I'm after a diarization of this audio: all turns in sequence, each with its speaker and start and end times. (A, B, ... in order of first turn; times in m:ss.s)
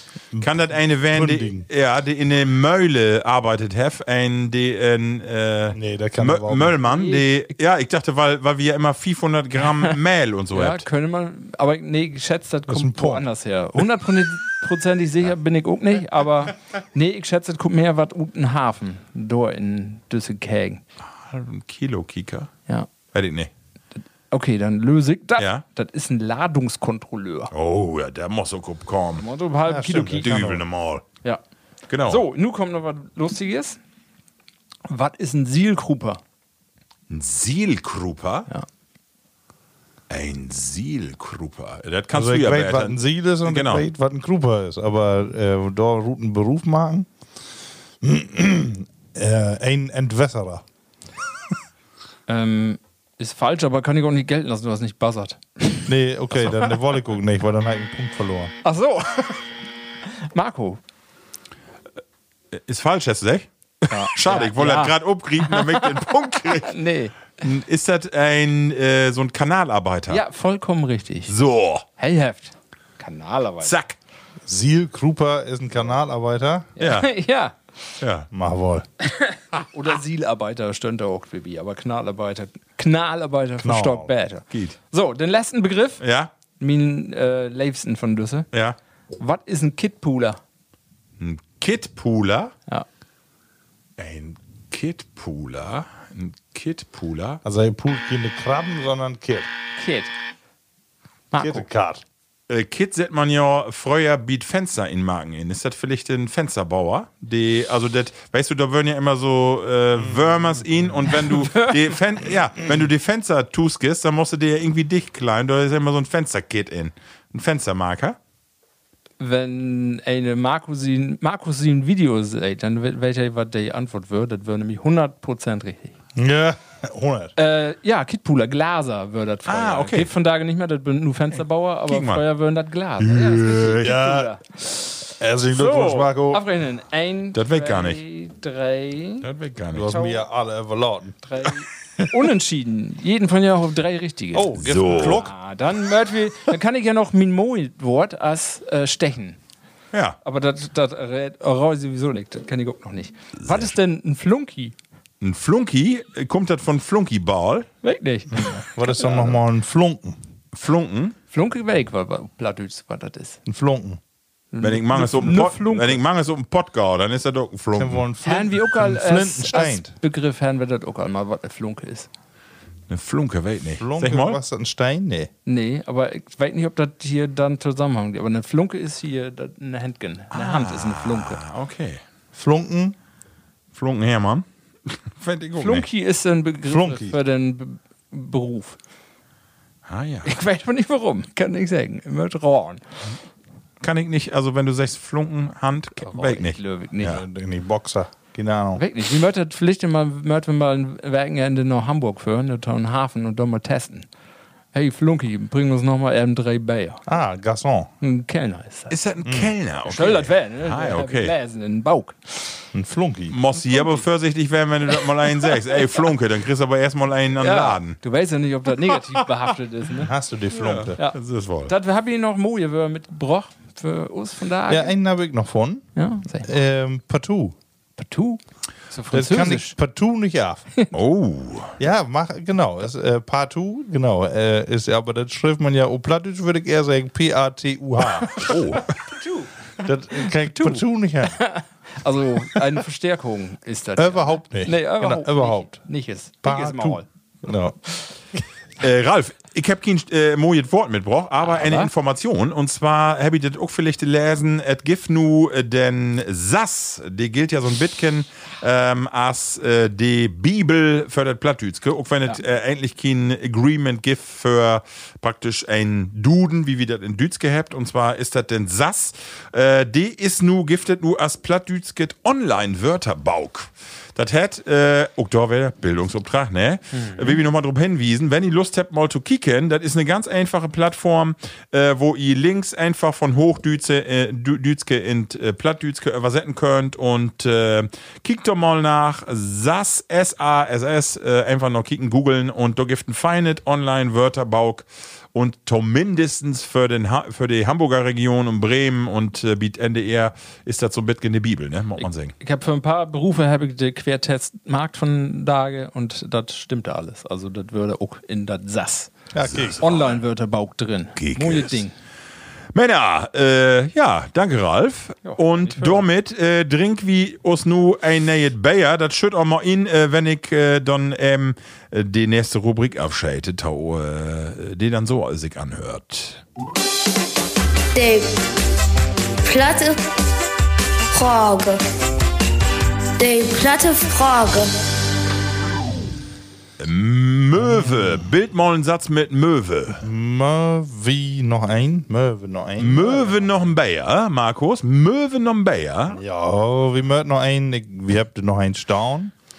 0:00.3-0:01.7 A
0:00.4-0:10.8 B
0:05.7-0:06.8 A
0:06.9-0:07.3 C
0:10.5-0:20.8 C
0:12.7-0:13.2 A
0:21.0-0:22.5 B
0:23.1-0:23.5 B
0:24.3-0:27.5 C
0:25.4-0:25.6 B
0:27.5-0:29.2 B
0:29.2-0:30.4 C
0:29.7-0:30.6 A
0:30.2-0:31.0 B
0:31.9-0:32.2 B
0:32.0-0:33.8 C
0:34.9-0:36.2 C
0:37.1-0:38.5 B
0:40.1-0:43.8 B
0:42.1-0:47.1 A
0:48.0-0:50.6 A
0:52.3-0:56.8 C
0:55.9-0:58.5 A
0:58.6-0:59.5 C
1:00.0-1:00.8 C
1:02.5-1:06.7 B
1:03.9-1:07.4 C
1:07.4-1:10.2 B
1:10.1-1:11.3 C
1:11.3-1:11.8 B
1:12.0-1:13.8 C
1:13.6-1:14.0 B
1:14.4-1:16.7 A
1:16.8-1:17.7 C
1:16.8-1:17.1 B
1:18.0-1:18.3 B
1:18.3-1:18.8 A
1:19.0-1:26.0 C
1:23.6-1:24.1 A
1:26.0-1:26.3 B
1:26.6-1:28.5 C
1:28.5-1:28.8 B
1:29.2-1:30.4 C
1:31.2-1:32.5 B
1:34.0-1:37.4 B
1:37.4-1:39.5 A
1:39.8-1:40.1 C
1:41.3-1:41.6 C
1:41.4-1:42.0 A
1:42.5-1:58.2 B
1:51.2-1:51.8 C
1:59.2-2:05.9 C
2:06.2-2:07.3 A
2:07.4-2:19.3 C
2:09.4-2:10.1 B
2:11.9-2:12.2 B
2:13.0-2:13.9 B
2:13.8-2:14.3 A
2:15.2-2:16.4 A
2:17.3-2:18.0 B
2:19.2-2:19.9 B
2:19.7-2:21.1 A
2:19.8-2:20.2 C
2:21.2-2:29.4 C
2:24.3-2:25.3 A
2:24.6-2:25.2 B
2:30.2-2:34.7 C
2:33.4-2:33.7 B
2:35.2-2:37.7 B
2:37.8-2:39.4 C
2:38.3-2:40.2 A
2:40.5-2:41.2 B
2:41.3-2:43.4 C
2:43.4-2:44.0 A
2:44.5-2:46.0 C
2:44.6-2:48.0 B
2:47.7-2:49.9 A
2:48.2-2:52.1 C
2:52.9-2:54.4 B
2:53.8-2:55.3 A
2:55.4-3:01.4 C
3:00.3-3:02.0 B
3:02.3-3:02.9 A
3:03.7-3:05.9 B
3:05.6-3:08.8 C
3:06.7-3:07.2 A
3:09.9-3:10.3 B
3:10.2-3:12.8 C
3:13.8-3:17.2 B
3:16.0-3:17.2 C
3:17.0-3:18.8 A
3:18.8-3:24.1 C
3:24.7-3:27.0 C
3:27.1-3:27.9 A
3:28.0-3:28.9 C
3:28.9-3:31.3 B
3:29.2-3:29.5 A
3:29.8-3:32.6 C
3:32.7-3:33.4 A
3:33.3-3:38.0 B
3:37.4-3:40.1 C
3:40.0-3:41.0 A
3:40.5-3:41.7 B
3:41.7-3:44.9 C
3:44.7-3:45.8 A
3:46.0-3:46.5 C
3:46.4-3:47.5 A
3:48.0-3:48.4 C
3:48.9-3:49.8 C
3:49.1-3:50.6 A
3:50.9-3:51.8 B
3:51.8-3:58.5 A
3:58.3-3:59.7 C
3:58.4-3:58.9 B
3:59.8-4:01.4 A
4:00.2-4:07.0 C
4:04.0-4:05.8 A
4:06.4-4:07.8 A
4:08.8-5:02.3 B
4:11.4-4:11.9 C
4:37.0-4:37.4 C
5:02.4-5:09.1 C
5:09.3-5:09.8 A
5:09.4-5:10.2 B
5:09.8-5:11.9 C
5:11.2-5:11.8 B
5:12.7-5:26.4 B
5:15.2-5:16.0 C
5:27.9-5:28.4 D
5:29.4-5:30.1 D
5:31.1-5:31.8 D
5:33.2-5:34.8 D
5:36.8-5:40.0 B
5:37.6-5:38.2 A
5:40.0-5:43.4 A
5:42.8-5:46.2 B
5:46.1-5:49.3 A